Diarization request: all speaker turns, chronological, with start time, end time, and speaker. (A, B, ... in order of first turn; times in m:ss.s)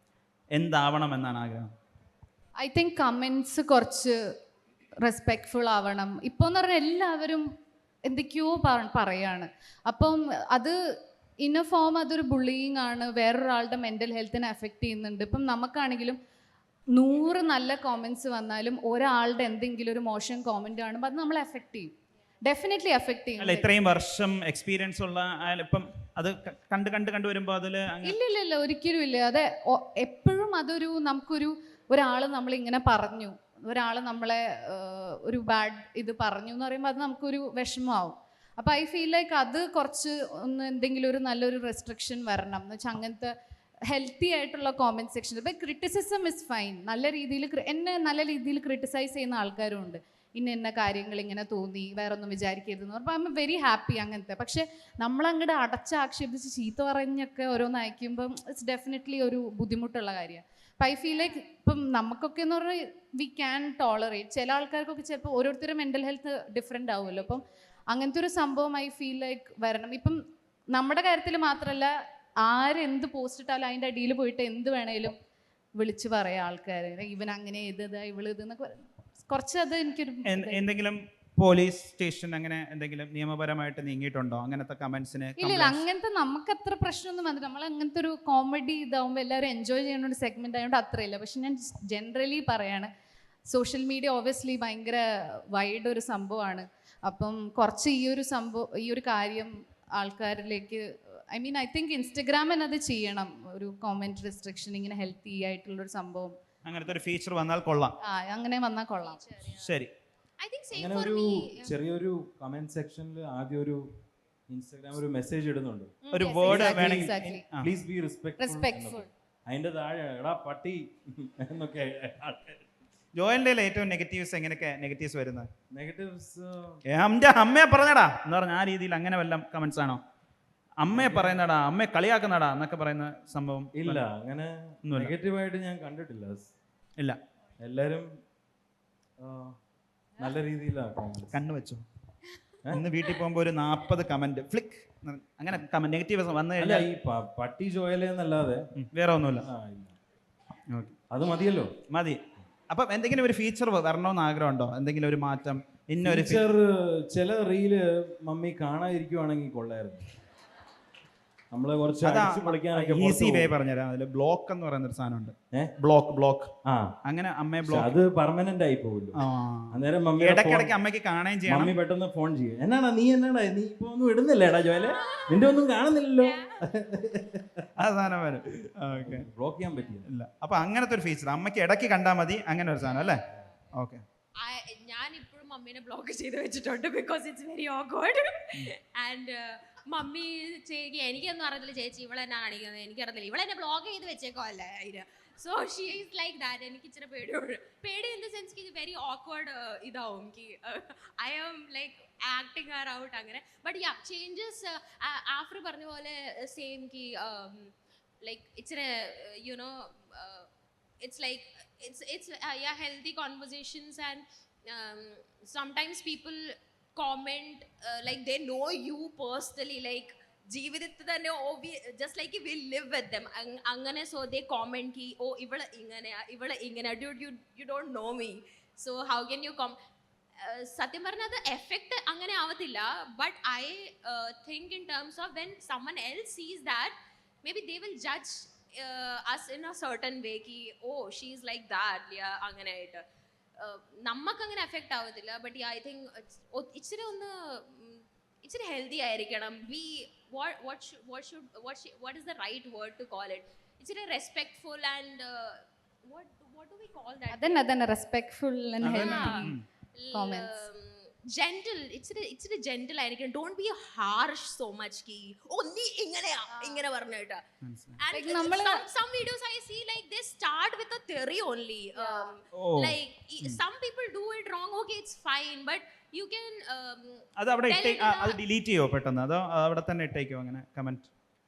0:00.5-0:01.7 A
0:02.6-0:04.2 B
0:05.0-0:07.5 B
0:08.0-0:10.7 B
0:11.4-0:16.2 B
0:16.9-0:23.7 B
0:23.4-0:28.2 A
0:28.0-0:43.3 B
0:43.9-1:10.2 B
1:10.7-1:11.9 B
1:12.4-1:15.2 B
1:15.8-1:20.6 B
1:20.2-1:25.8 A
1:25.4-1:32.9 B
1:33.5-1:46.3 B
1:46.6-1:48.0 A
1:48.0-1:49.2 B
1:49.5-1:49.9 A
1:50.4-1:51.8 C
1:50.7-1:53.8 D
1:54.5-2:02.7 D
1:56.1-1:56.4 C
1:56.1-1:57.4 B
1:56.1-1:57.7 A
1:58.4-1:59.1 B
2:03.2-2:05.5 A
2:05.7-2:06.8 D
2:06.8-2:10.0 A
2:10.8-2:14.0 A
2:10.9-2:11.4 D
2:13.8-2:16.5 D
2:14.8-2:15.1 A
2:17.6-2:18.2 D
2:19.2-2:19.6 D
2:20.2-2:21.4 D
2:21.3-2:21.8 A
2:22.7-2:26.9 A
2:26.6-2:28.7 D
2:28.8-2:29.5 A
2:29.4-2:29.9 D
2:30.7-2:31.0 A
2:31.1-2:31.8 D
2:31.9-2:36.4 A
2:36.0-2:40.1 D
2:41.5-2:43.5 D
2:42.0-2:46.5 A
2:46.6-2:47.0 D
2:47.0-2:47.9 A
2:47.6-2:50.8 D
2:49.2-2:51.8 A
2:51.5-2:57.7 D
2:54.8-2:55.6 C
2:56.2-2:56.7 C
2:57.8-2:59.2 A
2:58.9-3:00.1 D
3:00.1-3:03.2 A
3:03.8-3:04.0 A
3:04.4-3:30.5 C
3:31.0-3:49.8 C
3:50.4-4:03.0 C
4:03.6-4:17.6 C
4:17.3-4:19.6 B
4:18.8-4:27.4 C
4:18.8-4:19.6 A
4:20.1-4:20.6 B
4:26.5-4:26.8 B
4:27.6-4:28.0 A
4:28.0-4:38.4 C
4:28.1-4:28.9 B
4:32.0-4:32.4 B
4:32.5-4:33.6 A
4:37.4-4:41.1 A